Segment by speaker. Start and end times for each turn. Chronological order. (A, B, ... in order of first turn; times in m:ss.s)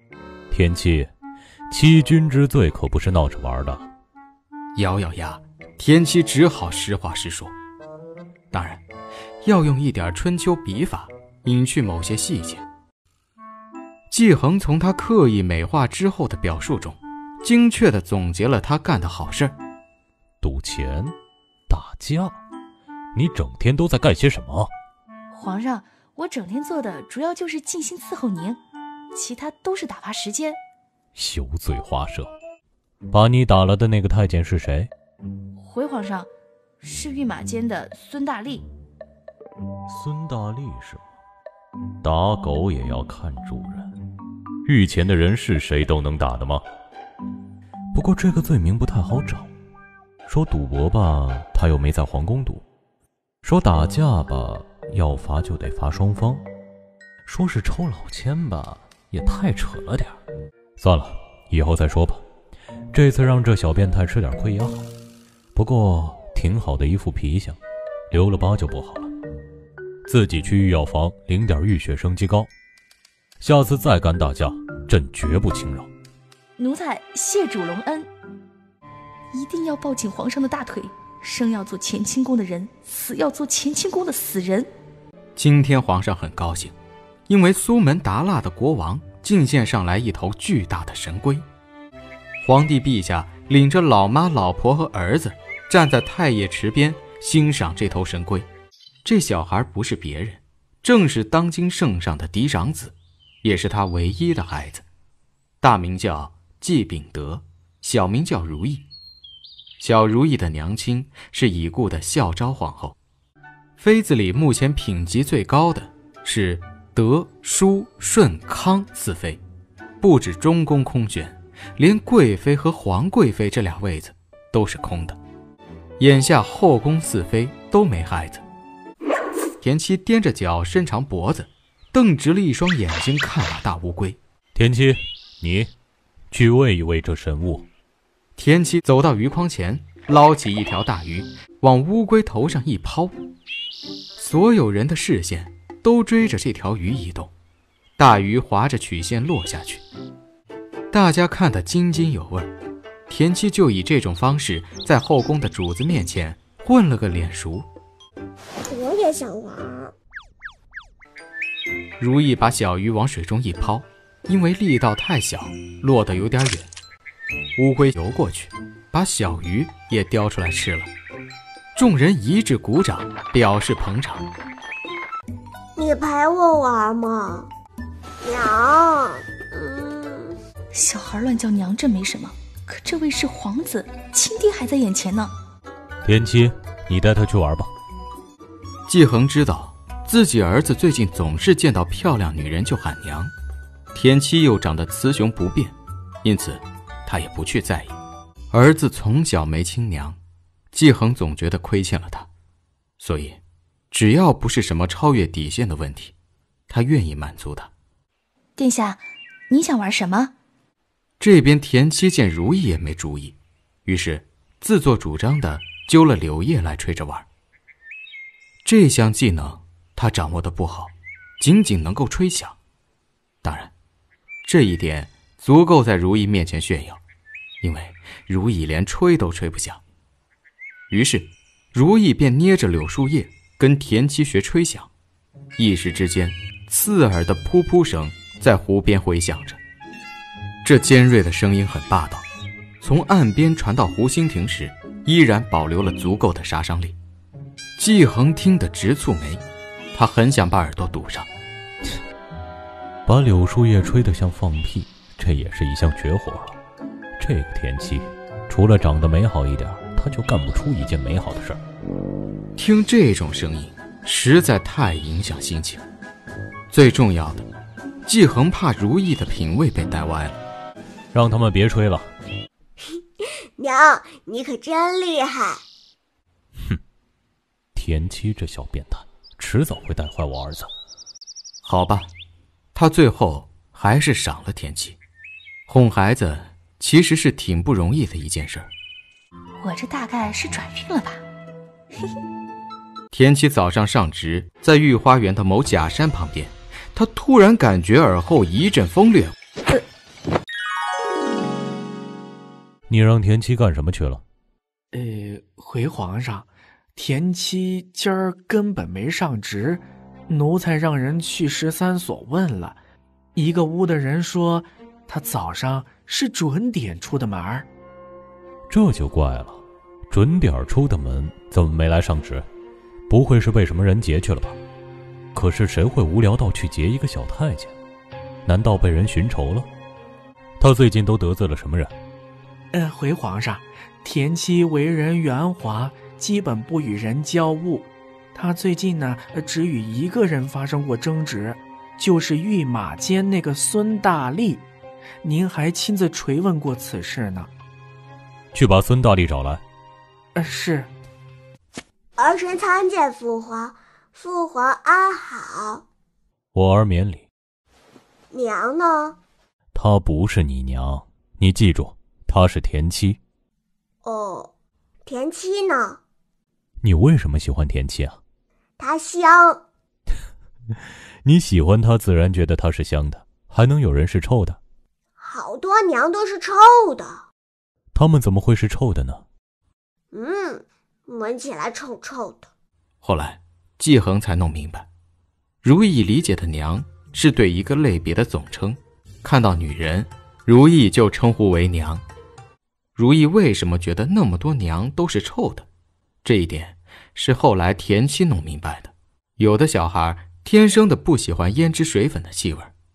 0:00.5-0:01.1 A
0:01.7-0:03.9 A
0:04.8-0:07.5 B
0:08.5-0:08.8 B
0:09.4-0:12.6 B
0:14.1-0:19.6 B
0:20.4-0:21.1 A
0:21.7-0:22.4 A
0:23.1-0:24.7 A
0:25.3-0:28.6 C
0:29.1-0:30.6 C
0:31.2-0:32.3 A
0:33.1-0:34.9 A
0:35.6-0:36.3 C
0:36.8-0:38.7 C
0:39.9-0:41.0 A
0:42.0-0:43.9 A
0:44.6-0:46.6 A
0:47.9-0:49.5 A
0:50.3-0:52.6 A
0:53.4-0:56.4 A
0:57.3-1:00.2 A
1:00.8-1:02.2 A
1:02.9-1:04.9 A
1:05.6-1:07.6 A
1:08.1-1:09.1 A
1:10.1-1:12.5 A
1:13.4-1:15.9 A
1:16.6-1:18.1 C
1:19.3-1:24.7 C
1:25.4-1:26.7 B
1:27.3-1:31.5 B
1:32.4-1:38.5 B
1:39.0-1:44.8 B
1:45.6-1:48.8 B
1:49.8-1:53.0 B
1:53.8-1:59.4 B
2:00.0-2:05.2 B
2:06.0-2:08.4 B
2:09.6-2:14.2 B
2:14.6-2:15.7 A
2:16.3-2:17.7 A
2:18.4-2:23.1 B
2:24.2-2:27.3 B
2:28.0-2:29.8 B
2:30.9-2:32.5 B
2:33.1-2:37.7 B
2:38.7-2:39.9 D
2:42.0-2:46.7 B
2:47.6-2:50.9 B
2:51.8-2:54.3 B
2:55.8-2:57.5 D
2:58.2-3:00.4 D
3:00.7-3:05.3 C
3:06.0-3:07.7 A
3:08.9-3:13.3 B
3:13.9-3:18.0 B
3:18.5-3:20.2 B
3:20.7-3:22.3 B
3:23.0-3:26.1 B
3:26.7-3:27.7 B
3:28.6-3:30.3 C
3:31.2-3:37.3 B
3:38.6-3:42.6 B
3:43.4-3:43.7 B
3:44.4-3:47.0 B
3:47.6-3:49.8 B
3:50.9-3:54.9 B
3:55.6-3:59.6 B
4:00.6-4:02.3 B
4:02.8-4:07.0 B
4:07.8-4:11.3 B
4:13.1-4:16.6 A
4:17.2-4:21.6 A
4:22.6-4:25.8 B
4:26.7-4:27.5 B
4:28.1-4:30.4 B
4:31.1-4:32.1 A
4:32.8-4:35.6 D
4:37.8-4:40.7 A
4:41.6-4:42.1 B
4:42.8-4:45.0 B
4:45.7-4:48.7 B
4:49.6-4:51.2 C
4:53.1-4:59.3 B
5:02.9-5:04.2 A
5:04.9-5:12.8 E
5:13.4-5:17.7 E
5:18.7-5:22.5 A
5:23.1-5:24.6 A
5:25.3-5:27.7 A
5:28.5-5:29.7 A
5:30.6-5:31.9 A
5:32.7-5:44.6 E
5:45.2-5:47.5 E
5:48.5-5:49.6 A
5:50.4-5:50.9 E
5:52.2-5:55.8 D
5:56.5-5:57.3 A
5:58.3-5:59.2 D
5:59.7-6:03.2 A
6:04.0-6:04.5 D
6:05.0-6:06.0 D
6:06.8-6:08.2 A
6:08.8-6:09.6 D
6:11.2-6:14.6 A
6:15.2-6:17.3 D
6:17.9-6:19.2 A
6:20.1-6:22.5 D
6:23.0-6:24.9 B
6:25.6-6:32.0 B
6:33.0-6:35.7 B
6:36.2-6:42.7 B